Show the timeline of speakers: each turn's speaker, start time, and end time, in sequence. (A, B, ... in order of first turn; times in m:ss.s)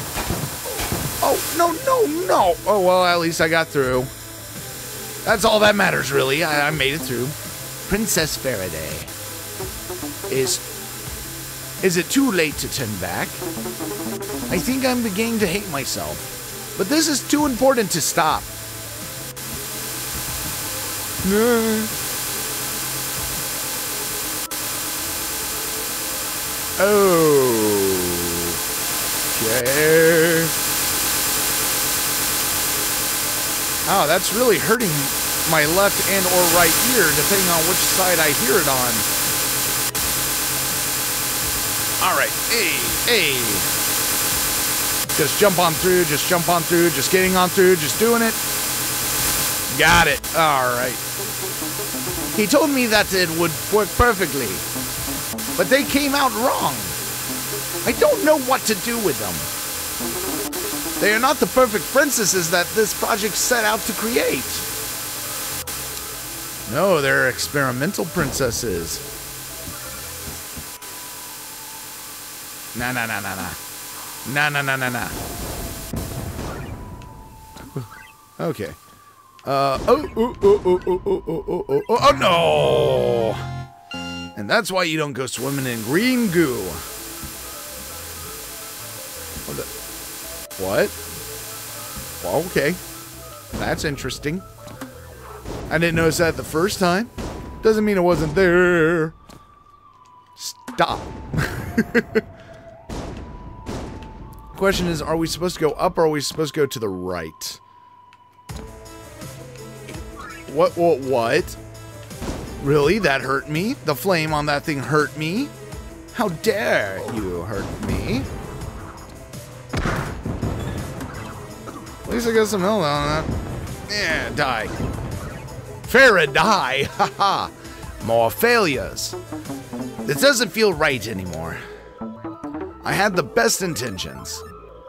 0:01.2-0:04.1 A
0:05.2-0:09.1 A
0:10.3-0:10.6 A
0:11.8-0:13.4 A
0:14.5-0:18.5 A
0:21.2-0:21.9 A
0:26.8-0:28.6 A
0:29.3-0:30.6 A
0:33.9-0:39.1 A
0:42.0-0:43.7 A
0:45.1-0:48.4 A
0:49.7-0:51.0 A
0:52.3-0:54.7 A
0:55.6-0:57.0 A
0:57.8-0:59.5 A
1:01.0-1:04.7 A
1:06.7-1:09.0 A
1:12.7-1:13.6 A
1:14.2-1:15.2 A
1:17.7-1:18.8 A
1:19.4-1:23.4 A
1:24.4-1:26.8 A
1:30.6-1:31.0 A
1:32.2-1:32.8 A
1:33.5-1:34.5 A
1:35.7-1:39.1 A
1:40.4-1:42.2 A
1:44.5-1:47.6 A
1:50.5-1:51.6 A
1:52.6-1:55.5 A
1:56.1-1:58.3 A
2:02.0-2:03.3 A
2:03.9-2:04.7 A
2:05.8-2:09.2 A
2:10.0-2:11.6 A
2:12.8-2:14.4 A